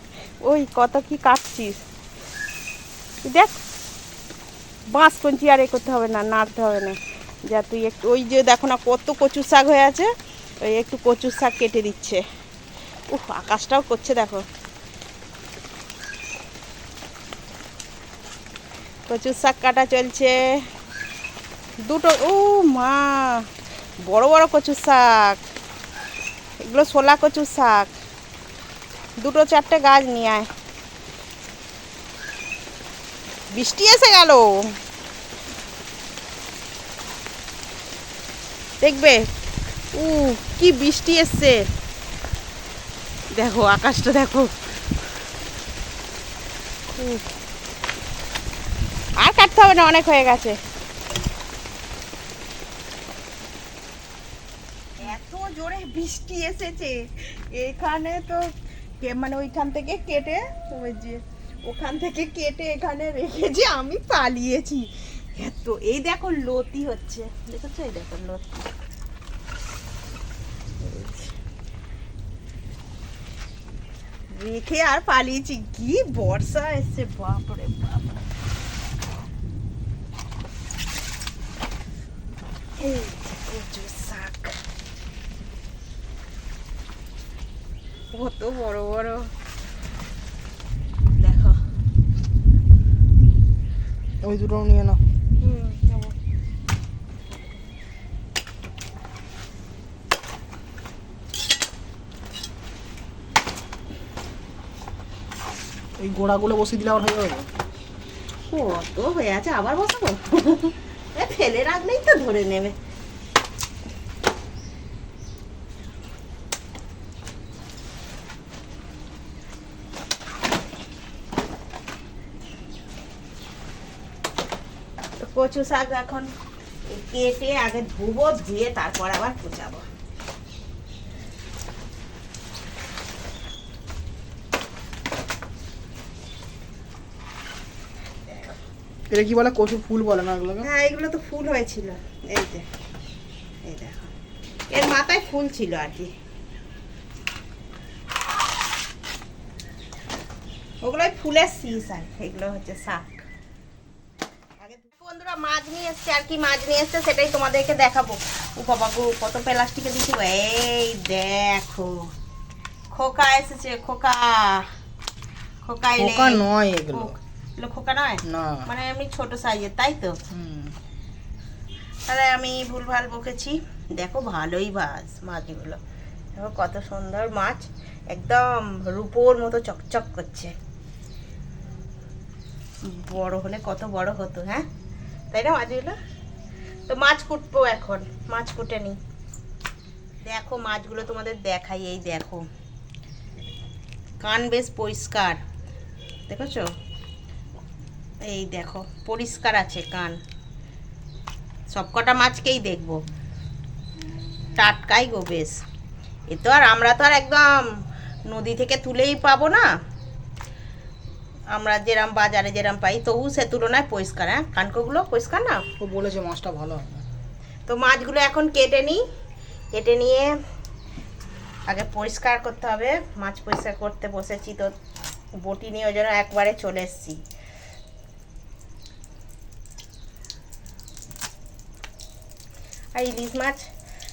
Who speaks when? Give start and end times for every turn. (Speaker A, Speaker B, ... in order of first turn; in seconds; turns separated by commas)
Speaker A: 0.4-1.8, Speaker A: 3.2-3.5, Speaker A: 4.9-10.1, Speaker A: 10.6-12.2, Speaker A: 13.1-14.5, Speaker A: 19.1-20.6, Speaker A: 21.8-23.5, Speaker A: 24.0-25.4, Speaker A: 26.6-27.9, Speaker A: 29.2-30.5, Speaker A: 33.5-34.8, Speaker A: 38.8-39.3, Speaker A: 39.9-41.6, Speaker A: 43.3-44.5, Speaker A: 47.0-47.2, Speaker A: 49.2-50.6, Speaker A: 55.0-68.7, Speaker A: 70.8-71.3, Speaker A: 74.3-78.2, Speaker A: 82.8-84.6, Speaker A: 88.1-89.3, Speaker A: 91.2-91.6, Speaker B: 94.2-95.0, Speaker A: 95.4-96.2, Speaker B: 106.0-107.5, Speaker A: 108.5-112.8, Speaker A: 125.2-126.3, Speaker A: 126.9-129.8, Speaker B: 139.1-140.7, Speaker A: 140.6-142.7, Speaker A: 143.6-144.1, Speaker A: 144.7-146.1, Speaker A: 150.8-153.2, Speaker A: 154.6-162.1, Speaker A: 162.9-164.7, Speaker A: 165.6-170.2, Speaker B: 166.0-167.2, Speaker B: 168.3-168.7, Speaker B: 170.3-170.8, Speaker A: 172.1-175.8, Speaker A: 176.4-180.6, Speaker A: 182.8-184.7, Speaker A: 185.3-186.0, Speaker A: 186.9-189.0, Speaker A: 190.2-192.5, Speaker A: 194.2-195.4, Speaker A: 196.3-196.7, Speaker A: 198.2-200.2, Speaker A: 201.7-203.0, Speaker A: 204.6-205.6, Speaker A: 206.3-209.7, Speaker A: 211.5-215.6, Speaker B: 215.8-217.1, Speaker A: 217.7-219.0, Speaker A: 219.7-220.3, Speaker A: 221.7-224.7, Speaker A: 225.4-227.2, Speaker A: 232.9-233.7